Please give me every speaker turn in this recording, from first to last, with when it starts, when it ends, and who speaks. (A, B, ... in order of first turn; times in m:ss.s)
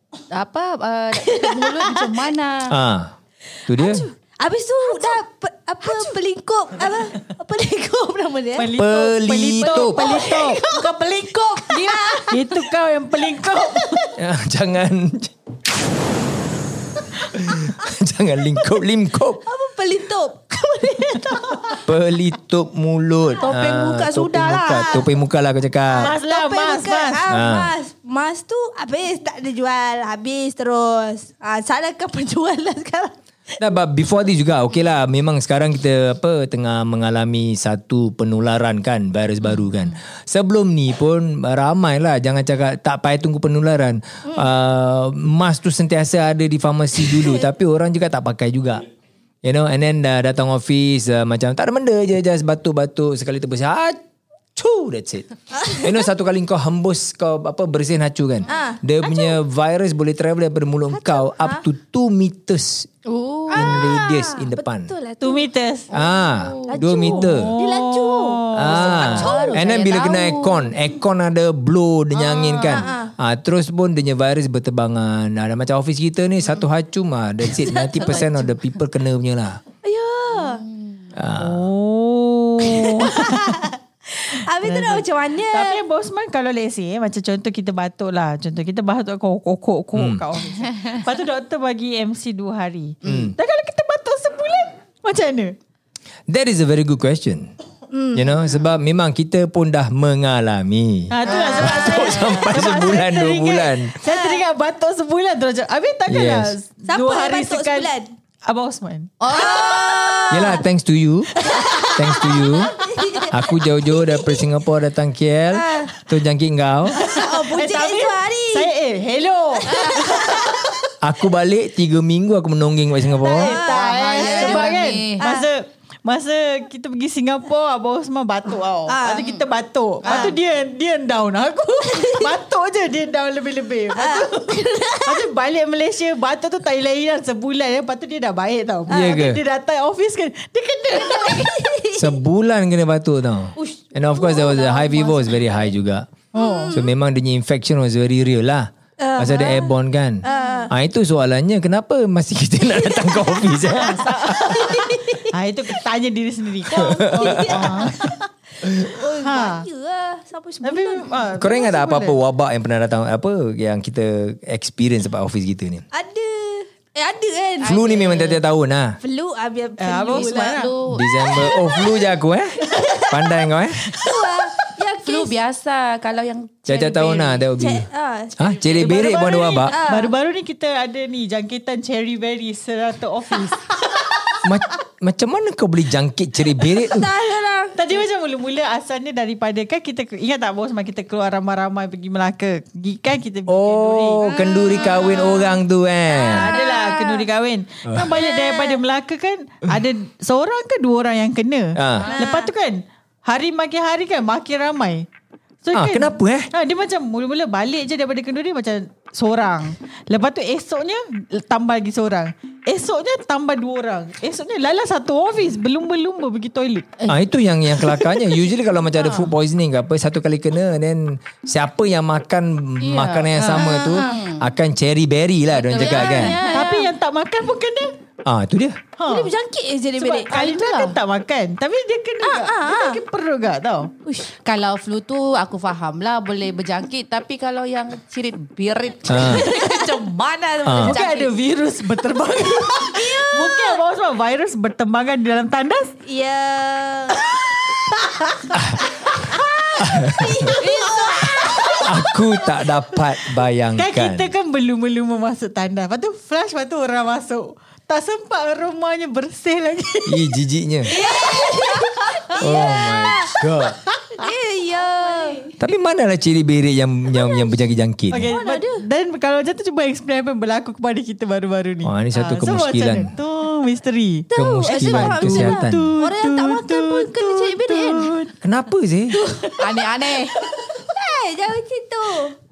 0:00.3-0:02.7 A
0:01.2-0:02.1 B
0:02.7-0:03.1 C
0:03.7-0:04.0 C
0:03.7-0:08.8 B
0:08.6-0:10.6 D
0:08.8-0:10.1 C
0:09.6-0:12.4 B
0:10.6-0:12.2 A
0:11.7-0:14.1 D
0:13.8-0:14.1 B
0:14.2-0:15.3 C
0:17.3-0:19.4 C
0:19.4-0:21.8 B
0:21.2-0:21.6 D
0:21.8-0:26.1 C
0:23.4-0:25.0 B
0:25.9-0:33.1 B
0:26.0-0:27.3 D
0:27.3-0:27.7 C
0:33.6-0:48.9 C
0:47.0-0:47.4 B
0:49.4-0:54.0 C
0:54.6-1:02.9 C
0:55.6-0:56.0 B
0:58.5-0:59.4 B
1:00.9-1:01.6 B
1:03.0-1:03.8 A
1:03.5-1:05.5 B
1:03.5-1:04.9 C
1:05.2-1:05.9 D
1:05.9-1:07.2 A
1:05.9-1:07.5 C
1:06.7-1:09.7 B
1:07.0-1:09.2 D
1:08.5-1:19.6 C
1:08.7-1:10.7 A
1:12.3-1:13.1 B
1:12.4-1:12.8 A
1:18.0-1:18.5 A
1:19.8-1:20.6 B
1:20.3-1:21.0 A
1:21.1-1:21.6 C
1:21.4-1:23.6 D
1:22.8-1:25.8 B
1:24.6-1:35.5 D
1:29.9-1:30.3 C
1:33.0-1:33.4 C
1:36.3-1:37.5 C
1:37.9-1:38.4 B
1:38.1-1:44.0 C
1:41.1-1:47.9 D
1:41.3-1:41.7 A
1:41.3-1:42.9 B
1:44.0-1:44.4 B
1:46.1-1:46.5 C
1:46.9-1:48.1 B
1:48.4-1:49.8 D
1:49.2-1:50.3 A
1:49.3-1:50.6 B
1:50.3-1:51.3 C
1:51.4-1:54.4 B
1:51.5-1:53.2 D
1:51.9-1:52.7 C
1:53.3-1:57.0 C
1:55.5-1:55.9 B
1:56.9-2:00.6 D
1:57.0-1:58.7 B
1:59.6-2:00.8 B
2:01.0-2:03.6 C
2:03.2-2:05.5 B
2:03.2-2:21.6 D
2:03.7-2:05.2 A
2:08.9-2:09.4 B
2:10.0-2:10.3 A
2:10.0-2:10.3 B
2:11.8-2:12.3 B
2:14.0-2:15.2 B
2:18.9-2:19.4 C
2:21.0-2:22.1 B
2:21.9-2:26.1 C
2:24.1-2:25.1 B
2:24.3-2:25.4 A
2:26.3-2:26.8 D
2:26.4-2:26.9 B
2:26.7-2:34.9 C
2:29.0-2:30.7 B
2:32.8-2:35.3 B
2:33.8-2:38.0 D
2:36.7-2:39.0 C
2:36.7-2:41.2 B
2:39.2-2:39.6 D
2:40.6-2:42.1 D
2:41.4-2:45.8 C
2:45.9-2:47.8 B
2:47.6-2:48.4 A
2:47.6-2:49.0 C
2:49.0-2:52.0 B
2:49.8-2:50.7 D
2:50.1-2:51.0 A
2:50.9-2:53.9 C
2:52.6-2:55.3 B
2:55.0-2:57.4 A
2:56.7-2:57.9 C
2:57.6-3:00.1 B
2:58.4-2:59.8 C
2:59.8-3:04.1 D
3:04.4-3:07.1 C
3:06.8-3:08.0 B
3:07.7-3:15.2 D
3:13.5-3:16.5 C
3:14.4-3:15.6 B
3:16.1-3:17.2 B
3:16.2-3:25.0 D
3:17.8-3:18.1 C
3:18.1-3:18.8 B
3:21.7-3:22.1 C
3:22.0-3:22.5 B
3:25.6-3:37.0 D
3:25.7-3:26.5 C
3:37.1-3:46.4 C
3:39.0-3:39.3 A
3:42.8-3:43.3 A
3:43.3-3:43.8 D
3:43.5-3:44.2 B
3:44.0-3:44.4 A
3:45.6-3:46.7 A
3:45.7-3:46.9 B
3:46.5-3:47.9 D
3:48.2-3:48.8 C
3:49.0-3:49.3 D
3:49.1-3:50.9 B
3:50.0-3:53.9 D
3:52.2-3:53.0 B
3:54.2-4:01.3 A
3:59.1-3:59.5 C
3:59.3-4:00.0 B
4:00.6-4:01.0 C
4:00.8-4:05.9 D
4:02.7-4:03.8 B
4:06.0-4:07.8 B
4:07.8-4:08.6 D
4:08.5-4:08.8 C
4:09.1-4:09.8 D
4:09.8-4:10.6 C
4:09.9-4:11.9 B
4:10.5-4:12.0 D
4:11.8-4:14.3 C
4:13.8-4:20.3 D
4:20.0-4:20.9 C
4:20.8-4:22.6 D
4:20.9-4:23.3 B
4:22.4-4:23.8 C
4:23.9-4:24.2 D
4:24.2-4:25.5 B
4:25.0-4:25.4 D
4:25.6-4:28.4 C
4:27.1-4:27.5 B
4:28.1-4:38.3 D
4:28.3-4:28.8 B
4:31.8-4:33.1 C
4:34.3-4:38.2 B
4:34.3-4:35.9 C
4:38.4-4:39.3 C
4:39.1-4:42.3 B
4:39.6-4:40.4 A